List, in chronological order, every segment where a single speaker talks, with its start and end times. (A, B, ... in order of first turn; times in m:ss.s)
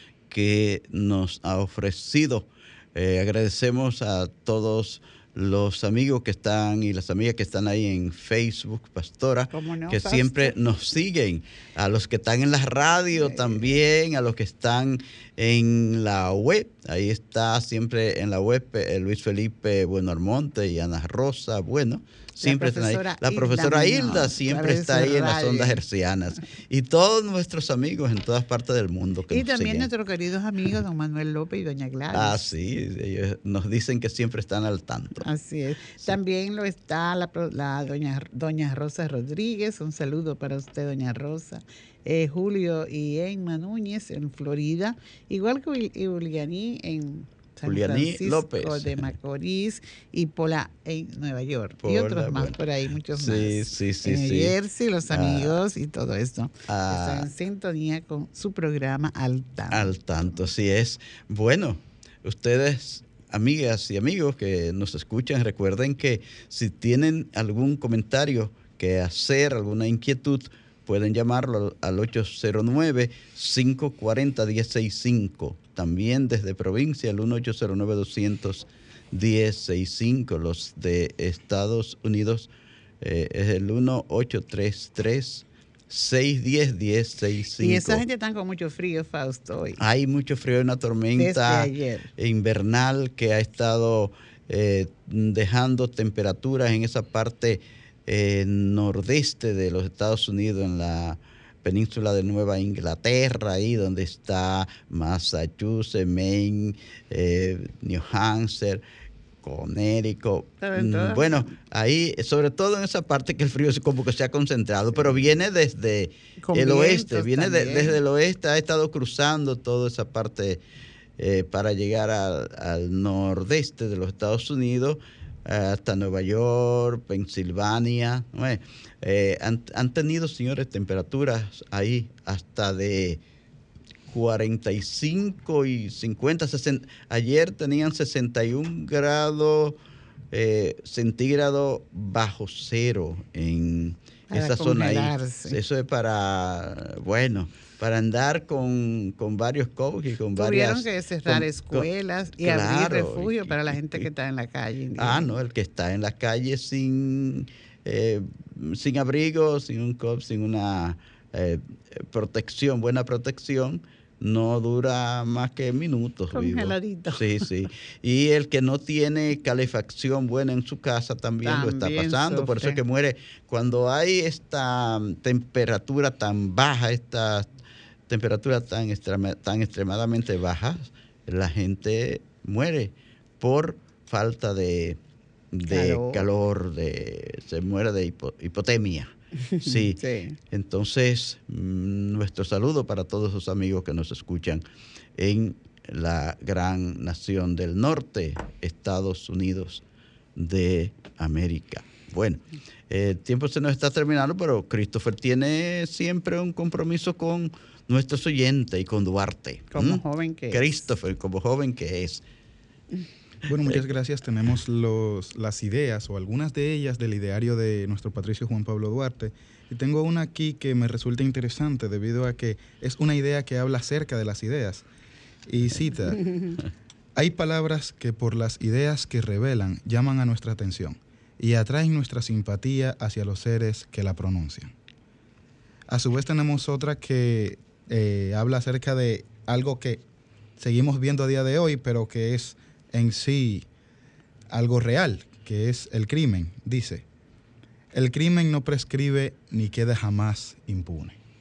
0:00.3-0:29.9 A
0:09.5-0:10.6 B
0:22.4-0:25.8 B
0:29.3-0:32.5 B
0:32.1-0:35.3 A
0:35.2-0:59.9 B
0:47.6-0:49.1 A
0:51.8-0:52.6 A
0:53.1-0:54.6 A
0:55.1-0:55.6 A
0:56.7-0:57.3 A
0:59.7-1:28.0 A
1:27.6-1:29.8 B
1:29.8-1:48.8 A
1:31.2-1:32.1 B
1:49.4-2:00.6 A
1:50.6-1:51.4 B
1:56.4-1:58.0 B
2:01.2-2:13.2 A
2:14.1-2:19.8 A
2:20.3-2:34.1 A
2:24.3-2:25.6 B
2:30.3-2:35.3 B
2:35.0-2:57.5 A
2:46.3-2:47.5 B
2:51.4-2:52.8 B
2:58.1-3:05.0 A
3:05.5-3:14.6 A
3:05.7-3:06.2 B
3:09.5-3:10.4 B
3:15.2-3:19.8 A
3:20.4-3:32.2 A
3:29.7-3:30.8 B
3:33.4-3:44.8 C
3:45.4-3:46.5 C
3:47.2-3:54.7 C
3:55.9-4:00.0 C
4:00.6-4:03.7 C
4:04.5-4:07.0 C
4:07.9-4:11.2 C